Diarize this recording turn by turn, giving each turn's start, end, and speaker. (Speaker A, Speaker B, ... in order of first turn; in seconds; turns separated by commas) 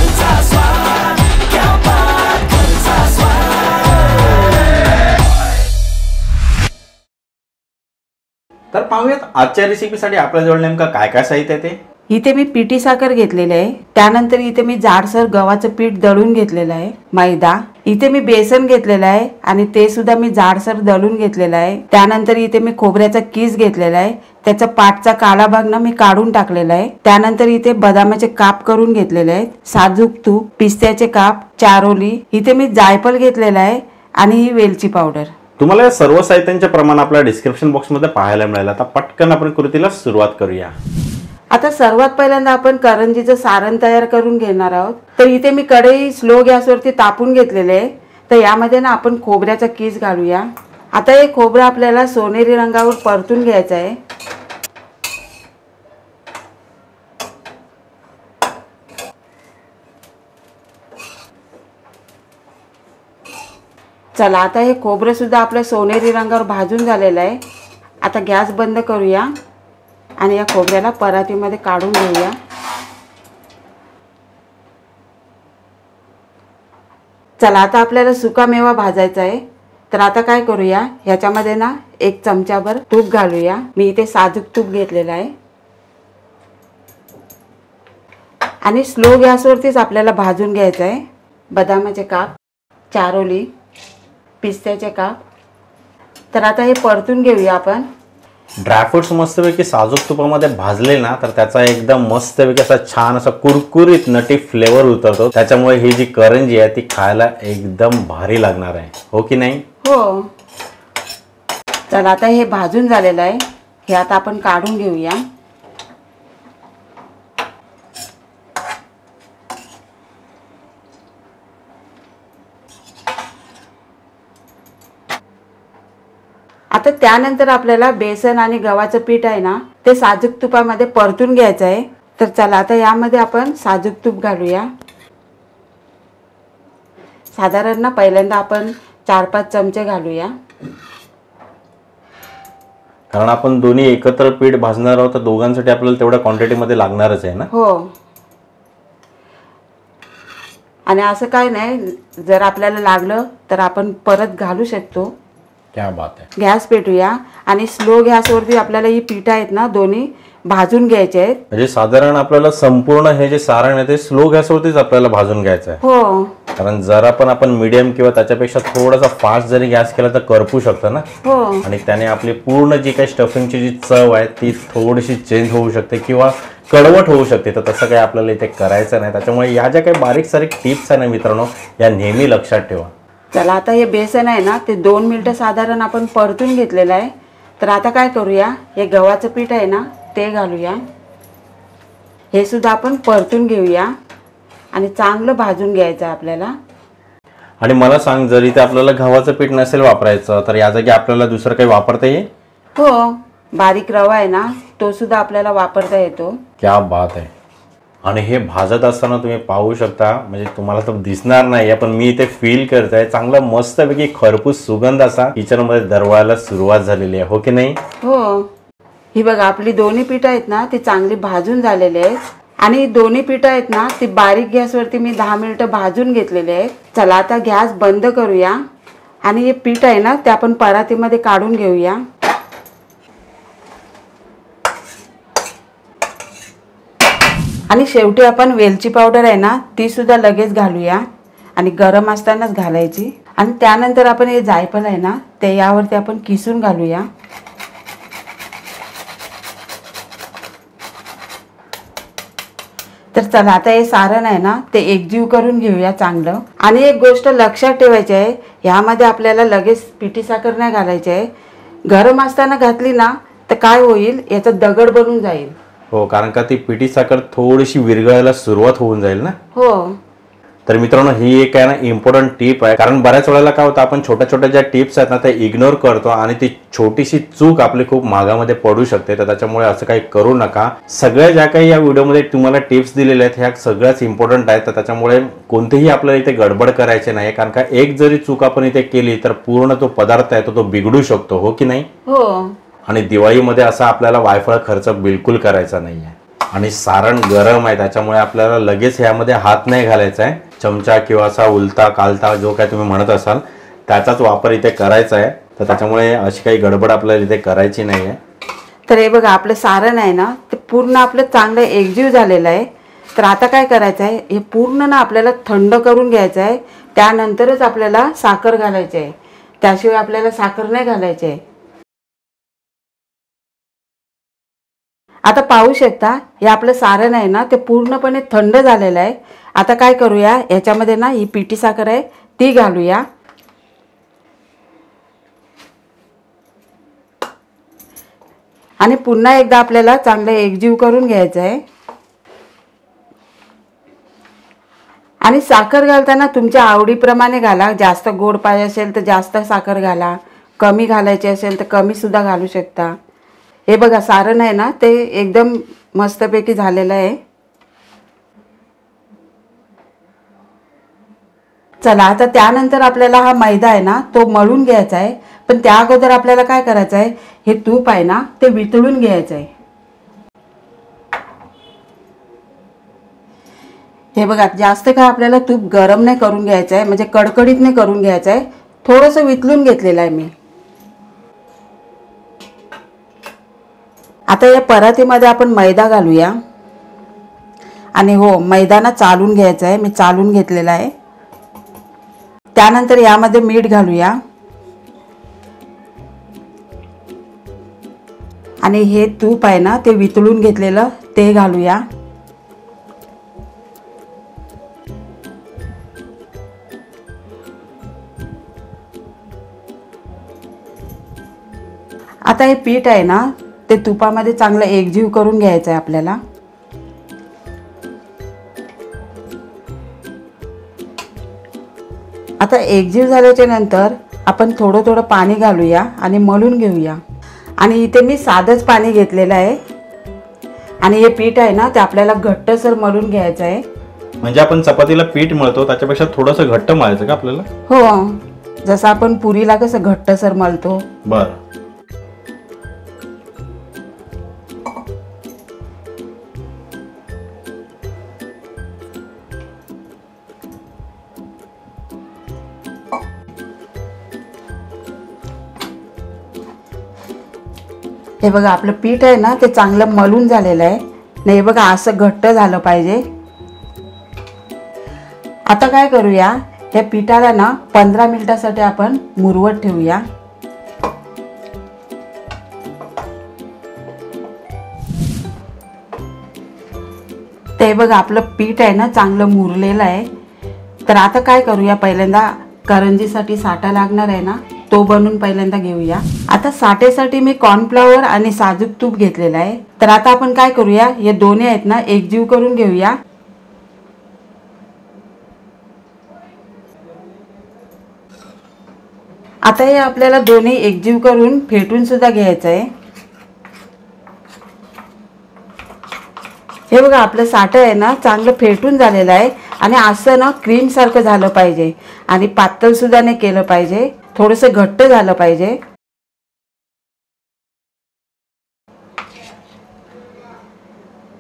Speaker A: 8.7-11.8, Speaker B: 12.1-35.3, Speaker A: 35.6-40.7, Speaker B: 41.5-54.0, Speaker B: 64.2-67.4, Speaker B: 68.0-69.3, Speaker B: 70.2-72.3, Speaker B: 77.4-85.3, Speaker B: 88.6-91.0, Speaker B: 91.5-92.3, Speaker B: 92.9-93.5, Speaker B: 94.4-95.2, Speaker B: 96.3-97.8, Speaker A: 98.6-109.6, Speaker B: 109.8-110.2, Speaker B: 111.9-115.2, Speaker B: 126.7-134.7, Speaker B: 137.4-140.3, Speaker A: 143.1-147.5, Speaker B: 147.5-147.9, Speaker B: 150.9-155.1, Speaker A: 155.7-156.3, Speaker B: 156.4-161.4, Speaker A: 161.5-165.8, Speaker B: 165.8-166.3, Speaker A: 166.6-171.1, Speaker B: 171.2-171.6, Speaker A: 171.6-182.9, Speaker B: 183.3-190.8, Speaker B: 192.3-193.9, Speaker B: 194.7-196.5, Speaker A: 197.6-202.3, Speaker B: 202.8-206.4, Speaker A: 206.6-207.3, Speaker A: 208.0-217.8, Speaker B: 218.0-218.5, Speaker B: 219.1-228.6, Speaker B: 229.2-232.0, Speaker B: 237.7-241.0, Speaker B: 241.6-247.0, Speaker B: 253.1-261.2, Speaker B: 261.9-265.5, Speaker A: 265.9-269.4, Speaker B: 269.6-270.0, Speaker A: 270.7-291.9, Speaker B: 292.1-292.5, Speaker A: 292.9-308.2, Speaker B: 308.9-321.4, Speaker B: 325.3-333.0, Speaker B: 338.8-341.6, Speaker B: 345.2-352.9, Speaker B: 353.7-357.2, Speaker B: 361.8-369.5, Speaker B: 374.1-380.3, Speaker B: 384.3-386.3, Speaker B: 388.0-390.9, Speaker B: 392.6-394.1, Speaker B: 398.6-401.8, Speaker B: 412.2-416.2, Speaker B: 422.4-427.0, Speaker B: 427.6-429.6, Speaker B: 430.8-433.6, Speaker A: 434.2-437.4, Speaker B: 437.7-440.8, Speaker A: 441.0-441.4, Speaker B: 458.2-463.0, Speaker B: 465.5-470.0, Speaker B: 477.6-480.1, Speaker B: 480.9-492.9, Speaker B: 499.5-502.7, Speaker B: 506.7-515.5